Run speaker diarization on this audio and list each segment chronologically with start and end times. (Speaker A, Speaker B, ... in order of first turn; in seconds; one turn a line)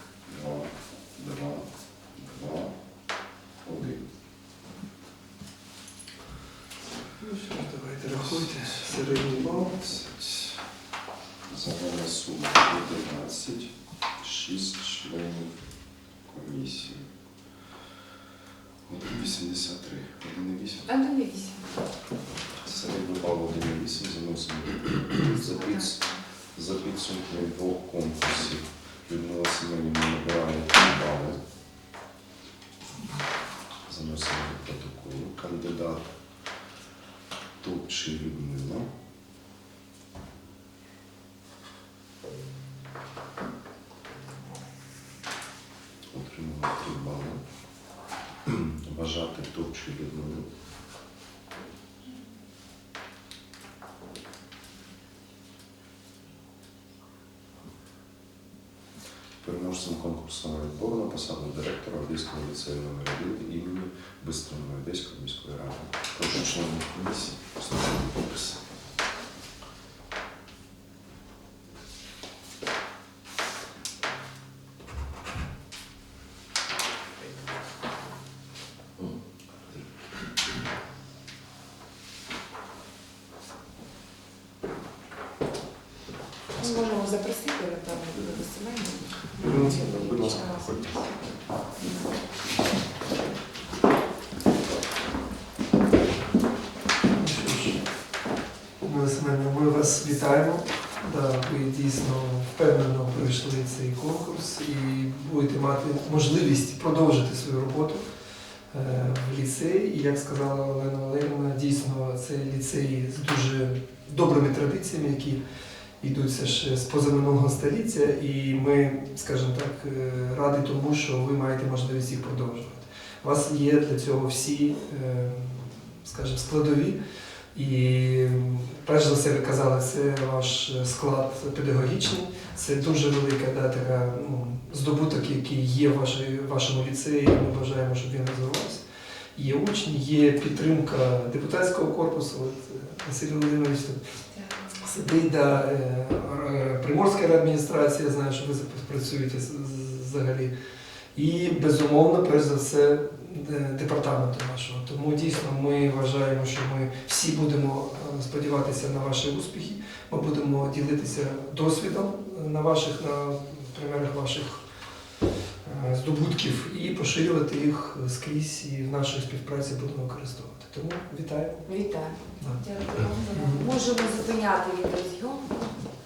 Speaker A: 0.2-2.8
Speaker A: 3.6-4.1
Speaker B: 7.2-9.7
Speaker A: 8.1-10.7
Speaker A: 11.4-17.1
Speaker A: 18.8-21.0
Speaker C: 20.9-21.8
Speaker A: 22.6-31.4
Speaker A: 33.9-36.0
Speaker A: 37.6-38.9
Speaker A: 46.1-47.4
Speaker A: 48.4-50.5
Speaker A: 59.4-68.6
Speaker C: 86.6-91.0
Speaker A: 89.4-90.9
Speaker C: 91.8-92.0
Speaker B: 97.1-97.8
Speaker B: 98.8-108.0
Speaker B: 108.7-115.4
Speaker B: 116.0-127.0
Speaker B: 127.5-138.8
Speaker B: 139.3-144.0
Speaker B: 144.7-150.5
Speaker B: 151.1-164.6
Speaker B: 165.6-171.6
Speaker C: 171.6-175.7
Speaker B: 173.3-173.7